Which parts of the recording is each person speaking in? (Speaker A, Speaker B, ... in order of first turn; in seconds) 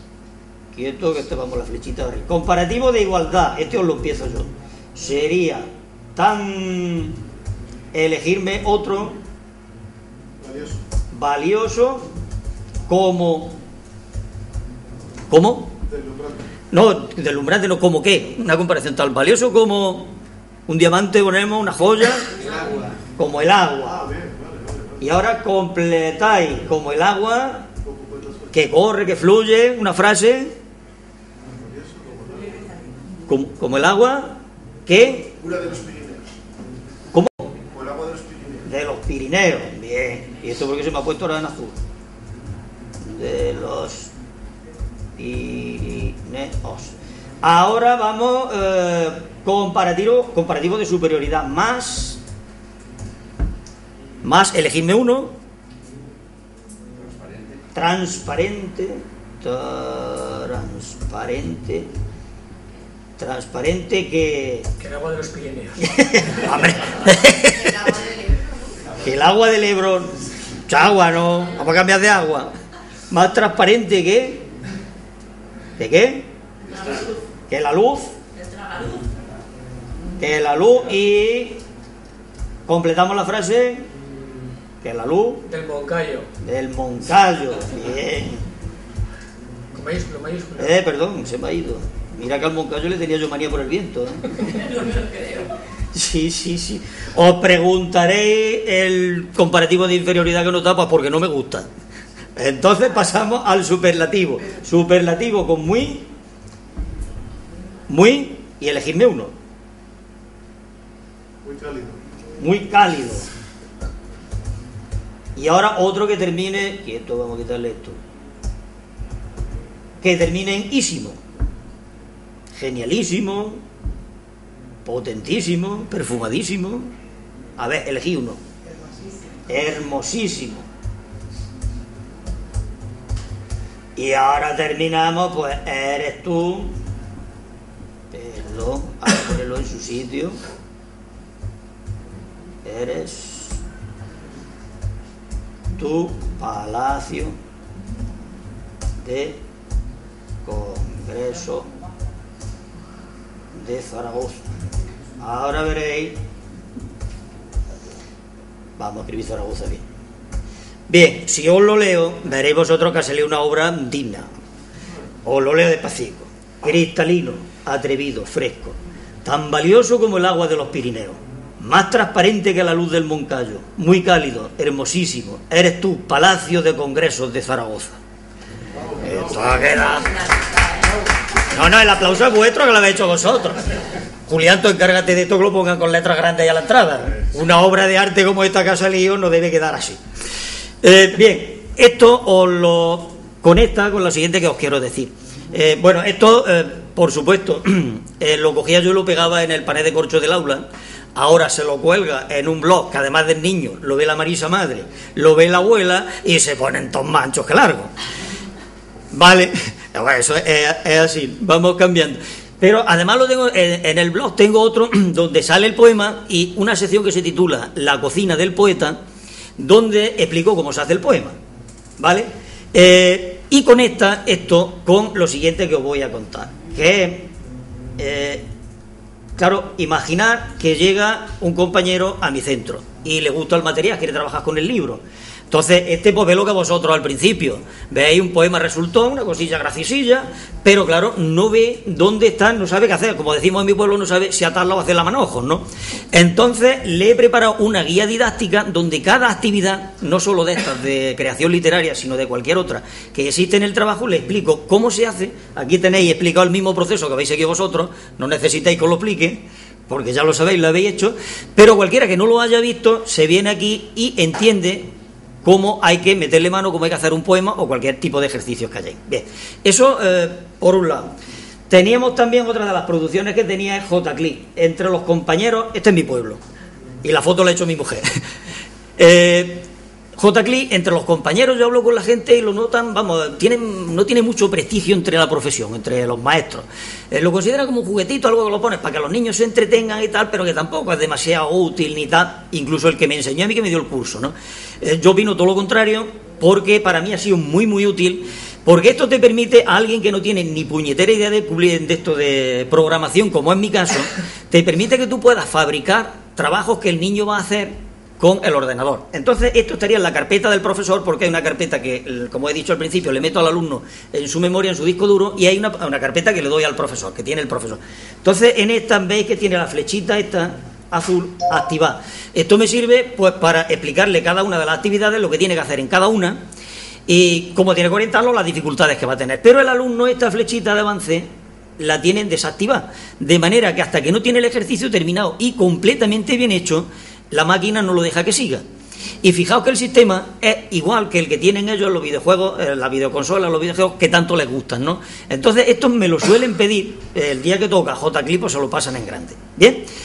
Speaker A: 0.7-7.2, 7.9-9.2, 11.1-12.1, 12.9-13.6, 15.3-15.7, 16.7-20.1, 20.7-22.4, 23.2-24.0, 25.0-27.7, 28.5-30.5, 33.3-35.4, 37.1-37.5, 38.6-41.8, 43.0-44.1, 45.2-52.2, 54.2-55.3, 57.7-61.9, 63.2-64.7, 65.8-68.0, 69.0-70.1, 70.7-72.5, 73.1-74.4, 75.8-76.3, 77.5-78.1, 80.2-81.6, 82.7-83.8, 84.8-85.5, 86.4-88.4, 90.6-94.9, 95.9-101.7, 102.3-106.0, 107.9-109.3, 112.4-113.2, 115.3-118.0, 120.0-121.2, 122.5-123.6, 124.8-126.9, 127.6-128.4, 129.5-130.7, 133.9-136.8, 138.1-140.4, 142.6-143.6, 145.8-147.3, 149.0-149.4, 150.4-151.7, 153.5-154.5, 155.2-156.2, 158.8-159.8, 160.9-164.3, 165.2-178.0, 179.0-180.2, 181.5-183.7, 184.3-190.0, 190.8-207.9, 209.1-219.0, 219.6-221.3, 222.0-227.3, 228.0-228.4, 229.4-264.9, 265.4-271.1, 271.7-276.4, 277.0-278.2, 279.0-326.4, 327.1-331.3, 331.8-338.6, 339.2-349.8
Speaker B: 10.4-10.8, 15.9-16.4, 23.9-25.0, 27.8-28.5, 31.5-32.6, 35.4-36.2, 37.6-38.7, 57.1-57.5, 111.4-112.0, 178.8-179.7
Speaker C: 64.8-66.0, 85.5-86.3, 89.7-90.8